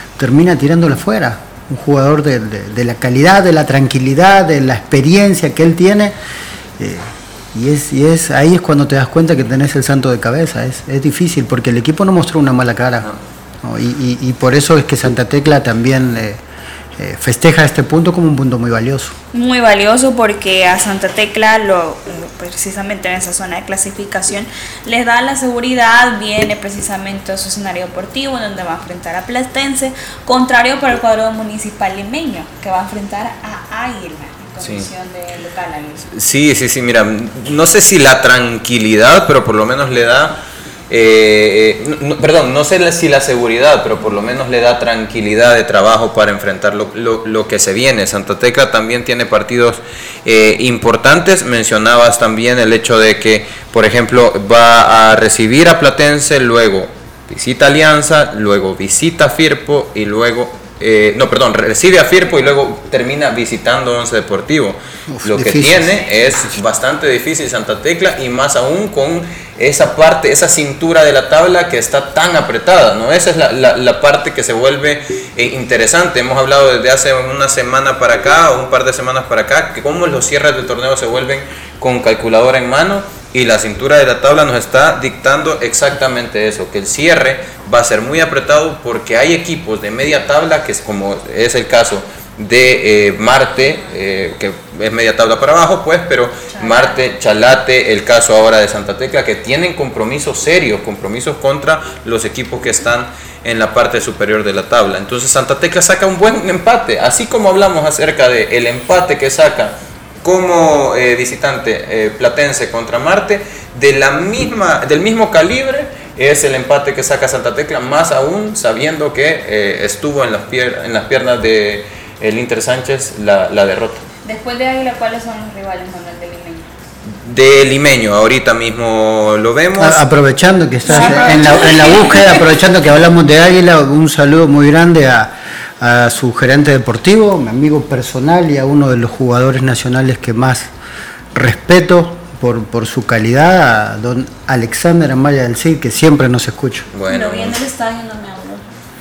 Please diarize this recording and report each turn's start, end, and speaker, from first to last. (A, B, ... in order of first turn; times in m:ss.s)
0:00.2-0:06.1 A
0:06.8-0:13.1 A
0:13.6-0:16.4 A
0:17.0-0:19.1 A
0:19.3-0:36.0 B
0:34.6-0:34.9 C
0:36.1-0:40.4 C
0:40.9-1:49.7 C
1:05.1-1:06.0 A
1:36.5-1:37.0 B
1:50.2-2:04.0 C
2:04.2-2:06.7 B
2:07.2-2:10.0 C
2:09.8-2:20.7 A
2:10.9-2:12.4 B
2:21.3-2:26.9 A
2:26.9-2:27.6 C
2:27.1-2:28.6 B